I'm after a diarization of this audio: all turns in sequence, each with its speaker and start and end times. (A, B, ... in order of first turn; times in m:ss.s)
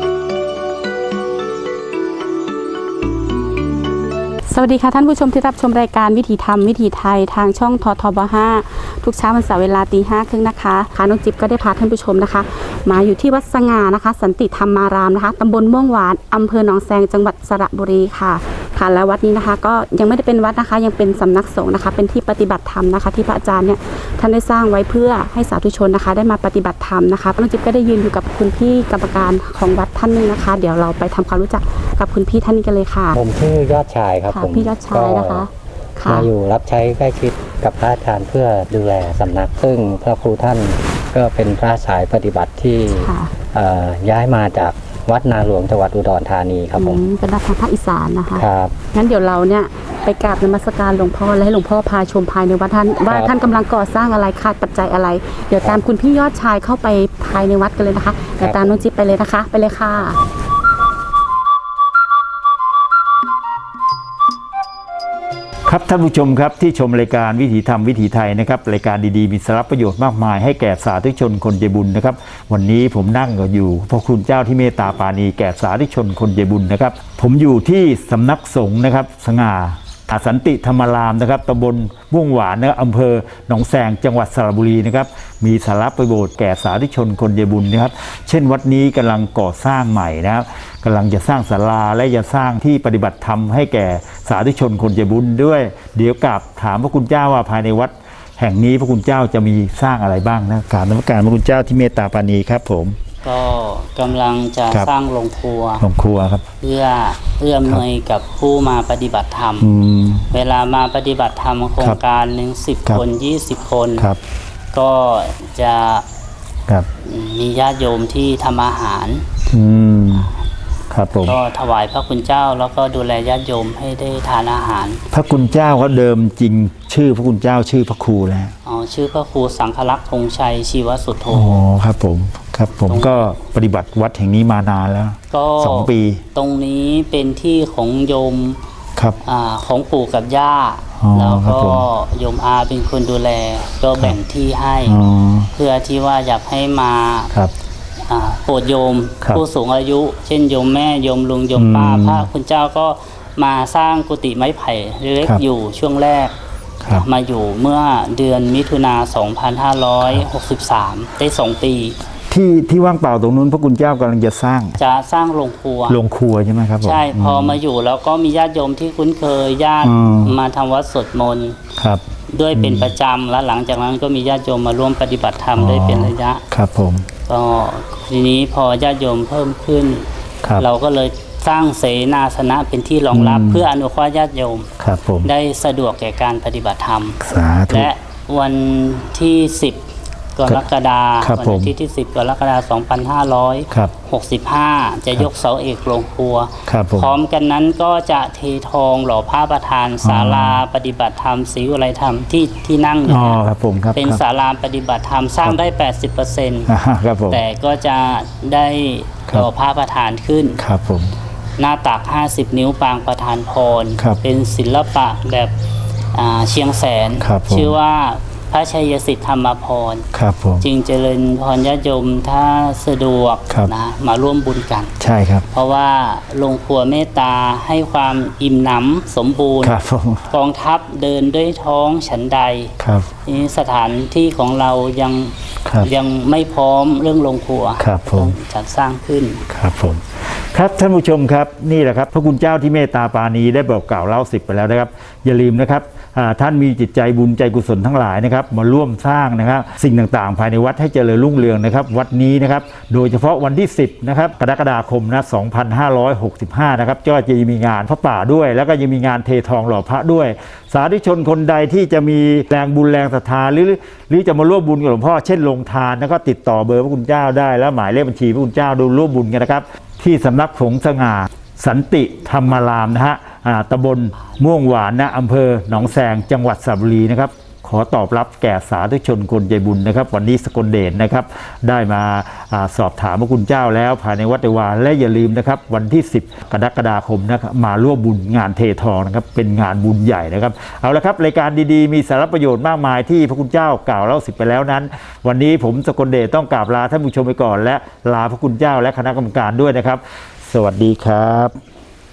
0:04.5-0:33.2 A
0:33.1-0:35.5 B
0:34.3-0:36.3 A
0:36.1-0:47.0 B
0:42.9-0:43.3 A
0:46.8-1:00.2 A
0:48.3-0:48.8 B
0:53.1-0:53.4 B
0:58.4-0:58.8 B
1:05.7-1:43.0 C
1:43.2-1:45.8 D
1:45.8-1:46.4 C
1:46.6-1:49.7 D
1:49.6-1:50.3 C
1:50.3-1:54.1 D
1:54.7-1:56.0 D
1:57.0-1:59.3 D
1:59.5-2:00.3 C
2:00.9-2:01.4 C
2:01.2-2:05.0 D
2:05.1-2:08.5 C
2:08.6-2:11.7 D
2:11.3-2:16.2 C
2:12.8-2:13.3 D
2:15.3-2:18.6 D
2:19.2-2:25.0 D
2:21.0-2:21.9 C
2:24.8-2:25.5 C
2:25.5-2:27.3 D
2:28.0-2:36.3 D
2:31.6-2:32.3 C
2:36.8-2:37.1 C
2:36.9-2:42.0 D
2:42.3-2:44.8 C
2:44.8-2:46.0 D
2:45.9-2:47.6 C
2:46.8-2:51.6 D
2:49.8-2:50.4 C
2:51.8-2:52.0 C
2:52.3-2:56.4 D
2:52.5-2:52.9 C
2:55.6-2:57.1 C
2:57.3-3:04.7 D
3:03.1-3:03.7 C
3:04.8-3:05.3 C
3:05.2-3:23.4 D
3:07.2-3:07.9 C
3:11.2-3:11.7 C
3:16.7-3:17.2 C
3:20.0-3:20.6 C
3:23.1-3:24.2 C
3:24.0-3:26.7 D
3:26.7-3:27.4 C
3:27.3-3:30.6 D
3:30.6-3:31.2 C
3:31.6-3:35.6 D
3:36.1-3:40.1 D
3:37.2-3:37.8 C
3:40.1-3:40.7 C
3:40.6-3:45.0 D
3:45.0-3:45.5 C
3:45.5-3:49.8 D
3:49.6-3:50.3 C
3:50.3-3:59.5 D
3:52.8-3:53.1 C
3:57.8-3:58.4 C
3:59.5-5:01.6 C